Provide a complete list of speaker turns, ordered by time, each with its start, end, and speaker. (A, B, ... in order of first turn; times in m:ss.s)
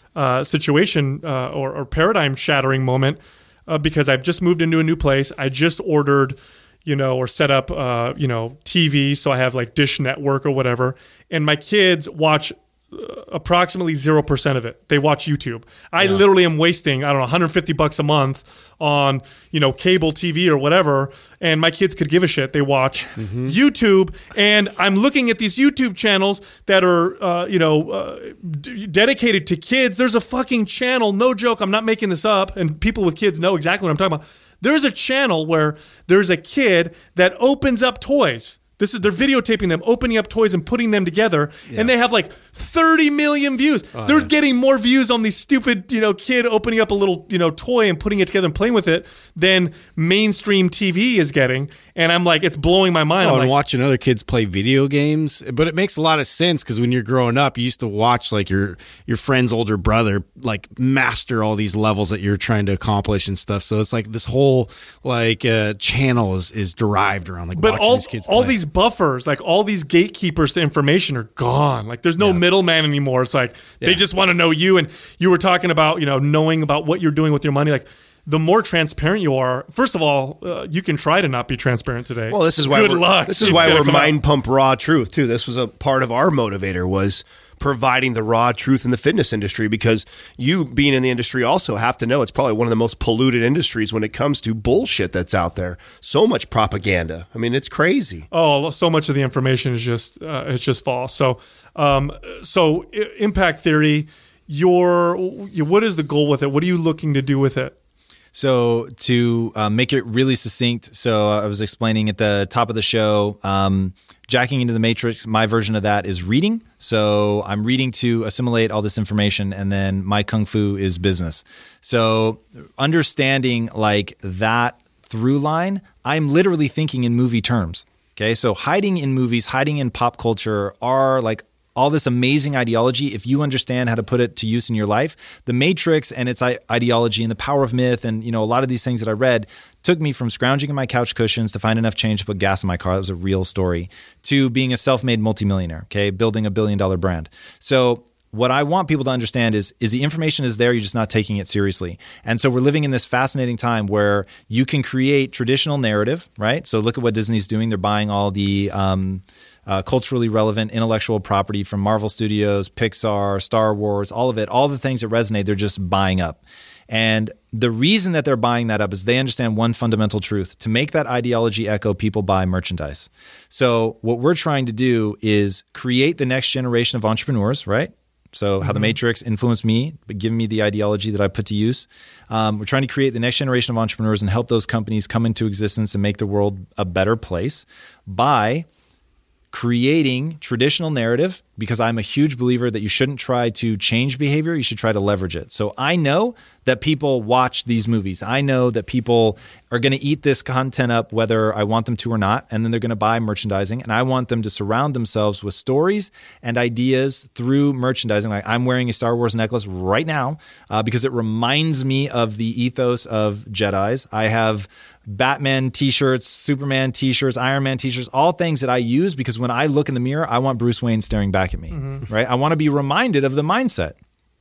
0:00.2-0:53.5 A
0:23.2-0:23.5 B
0:44.0-0:44.3 B
0:53.2-1:08.6 B
1:07.6-1:24.2 A
1:22.3-1:38.3 C
1:23.5-1:23.9 B
1:38.3-1:47.7 A
1:48.3-3:08.7 D
2:58.6-2:58.9 A
3:09.5-3:44.0 D
3:41.7-3:42.0 A